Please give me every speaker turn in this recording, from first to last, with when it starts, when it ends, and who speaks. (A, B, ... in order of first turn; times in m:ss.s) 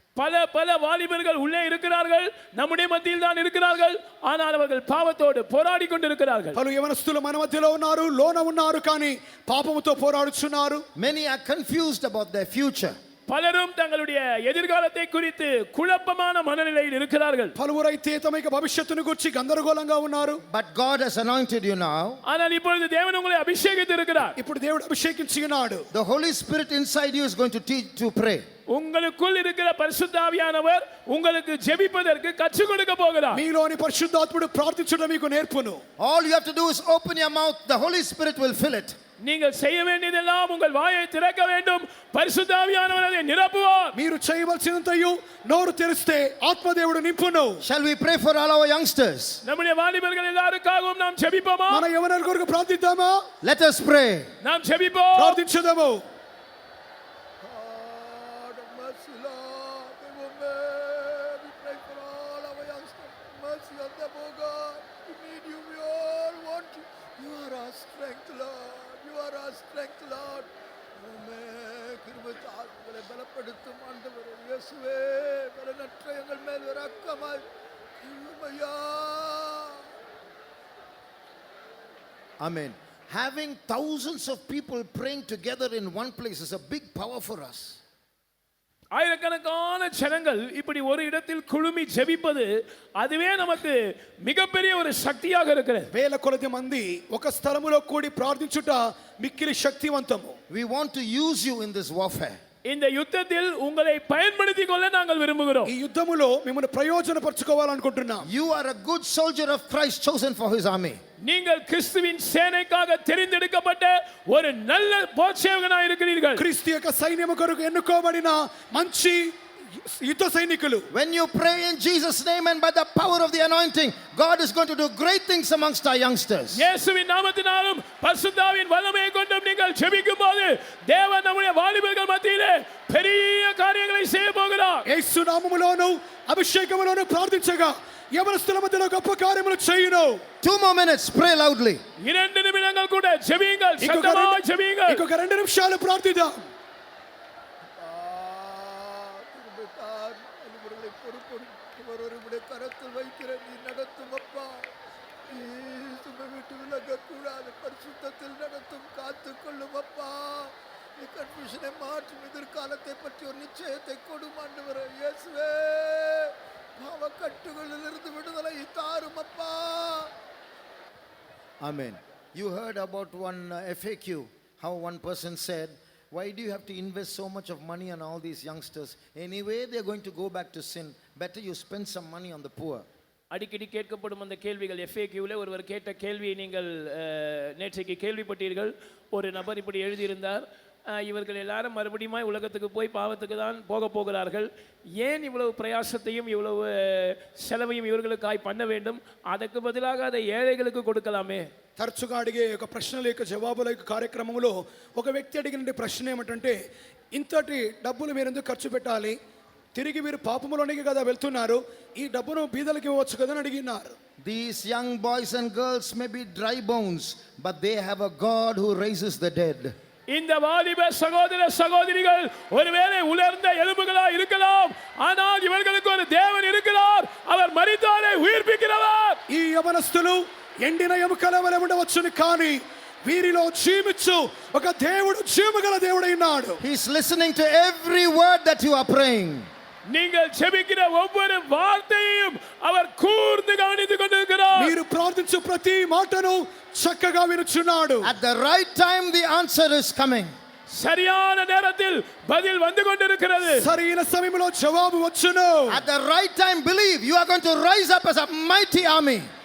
0:00.2-0:06.6 A
0:06.6-0:10.8 B
0:11.0-0:13.0 C
0:13.3-0:17.5 A
0:17.6-0:20.4 B
0:20.4-0:22.2 C
0:22.2-0:24.4 A
0:24.4-0:25.9 B
0:25.9-0:28.4 C
0:28.7-0:33.4 A
0:33.3-0:35.8 B
0:36.0-0:39.0 C
0:39.2-0:44.0 A
0:44.0-0:47.6 B
0:47.6-0:49.4 C
0:49.4-0:51.9 A
0:51.7-0:53.2 B
0:53.4-0:54.3 C
0:54.4-0:55.4 A
0:55.2-0:56.0 B
0:57.4-1:17.4 D
1:18.0-1:19.8 D
1:22.4-1:27.8 C
1:28.9-1:35.9 A
1:35.9-1:40.4 B
1:40.5-1:42.4 C
1:42.6-1:45.7 A
1:45.7-1:48.3 B
1:48.2-1:51.0 C
1:51.2-1:56.4 A
1:56.4-2:00.9 B
2:00.9-2:06.7 C
2:06.5-2:14.9 A
2:14.9-2:20.2 B
2:20.4-2:21.8 C
2:22.0-2:25.0 A
2:23.8-2:26.5 B
2:27.8-2:34.7 D
2:35.3-2:50.1 D
2:51.6-3:02.9 C
3:03.3-3:21.5 A
3:21.8-3:26.6 B
3:27.1-3:29.2 B
3:29.8-3:34.0 B
3:34.2-3:39.7 C
3:40.1-3:49.2 A
3:49.3-3:56.6 B
3:56.6-3:59.5 C
3:59.9-4:04.8 A
4:04.6-4:08.1 B
4:08.0-4:10.3 C
4:10.7-4:13.7 A
4:13.6-4:15.8 B
4:15.7-4:19.3 C